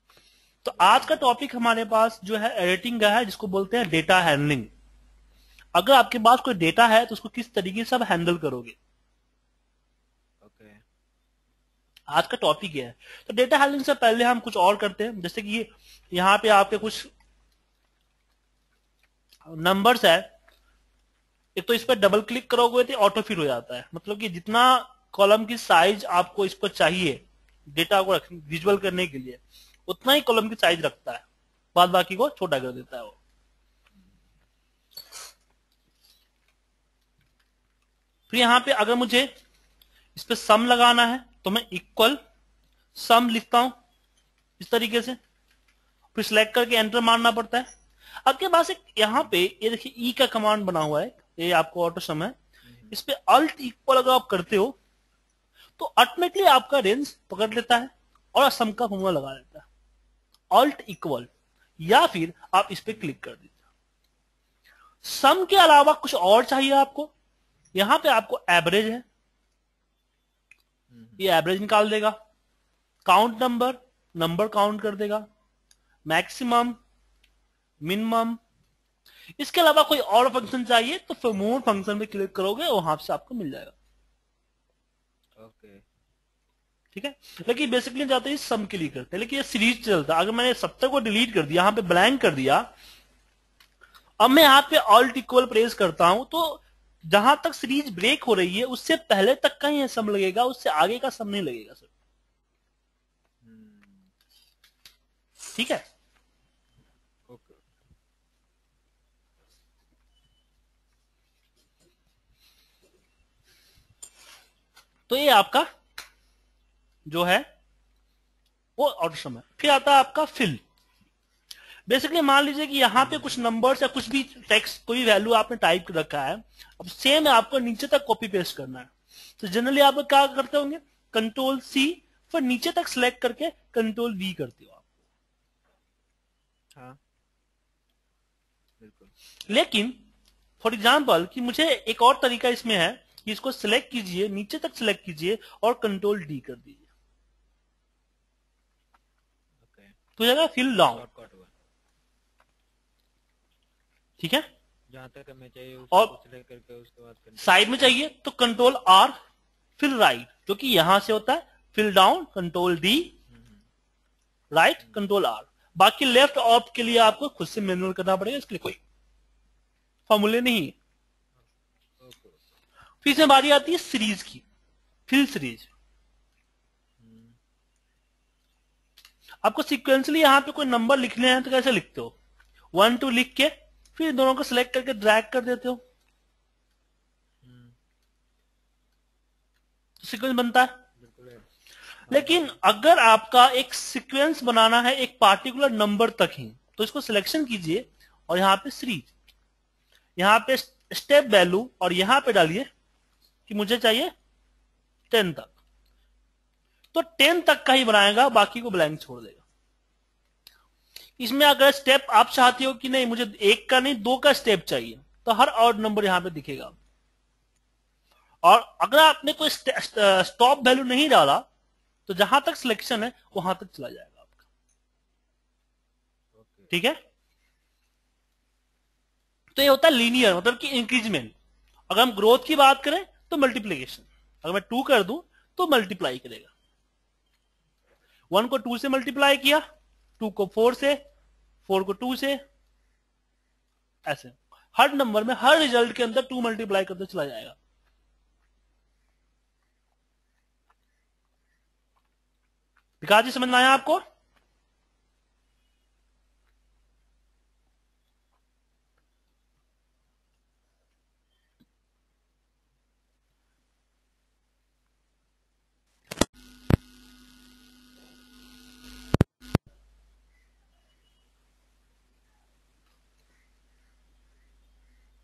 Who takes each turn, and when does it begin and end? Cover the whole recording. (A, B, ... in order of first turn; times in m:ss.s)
0:00.6-0:04.7 A
0:00.7-0:01.2 B
0:05.7-0:08.8 A
0:10.4-0:10.8 B
0:12.1-0:17.1 A
0:19.5-0:20.3 A
0:21.6-0:27.2 A
0:27.7-0:31.2 A
0:31.7-0:33.2 A
0:38.3-0:39.3 A
0:40.1-0:42.2 A
0:42.9-0:43.8 A
0:44.6-0:45.2 A
0:46.1-0:47.6 A
0:48.2-0:52.4 A
0:52.6-0:53.0 B
0:52.9-0:54.8 A
0:55.8-0:59.6 A
1:00.5-1:01.3 A
1:01.8-1:03.5 A
1:05.0-1:07.1 A
1:07.7-1:09.0 A
1:10.9-1:11.2 B
1:11.2-1:12.1 A
1:13.0-1:15.2 A
1:16.1-1:16.8 A
1:17.8-1:18.4 A
1:19.4-1:23.7 A
1:25.4-1:25.8 B
1:26.9-1:32.7 A
1:34.2-1:41.9 A
1:43.4-1:44.1 B
1:45.4-1:45.8 A
1:47.3-1:47.6 B
1:55.1-1:55.7 A
1:57.0-1:57.4 A
1:58.8-2:00.6 A
2:01.9-2:14.9 A
2:03.0-2:03.4 B
2:18.8-2:19.1 B
2:19.5-2:20.0 A
2:20.6-2:26.9 A
2:29.6-2:30.0 B
2:30.2-2:31.0 A
2:30.9-2:31.5 B
2:34.2-2:34.4 A
2:34.9-2:37.7 B
2:37.4-2:39.2 A
2:39.8-2:43.1 A
2:43.3-2:43.6 B
2:44.5-2:48.8 A
2:50.1-2:50.8 A
2:52.0-2:52.4 B
2:53.0-2:54.4 A
2:55.1-2:55.7 A
2:57.0-2:57.4 B
2:59.4-3:02.1 A
3:02.7-3:05.8 A
3:07.4-3:07.8 B
3:10.0-3:10.8 A
3:11.0-3:11.4 B
3:12.1-3:12.6 B
3:12.1-3:19.1 A
3:20.2-3:22.7 A
3:23.5-3:24.1 A
3:25.1-3:25.5 A
3:26.9-3:29.4 A
3:31.2-3:36.8 A
3:38.4-3:41.4 A
3:42.1-3:44.3 A
3:46.3-3:46.7 B
3:46.7-3:47.0 A
3:49.6-3:51.3 A
3:51.9-3:56.5 A
3:58.3-3:59.6 A
4:00.2-4:01.0 A
4:01.6-4:02.4 A
4:04.0-4:07.6 A
4:13.0-4:14.0 A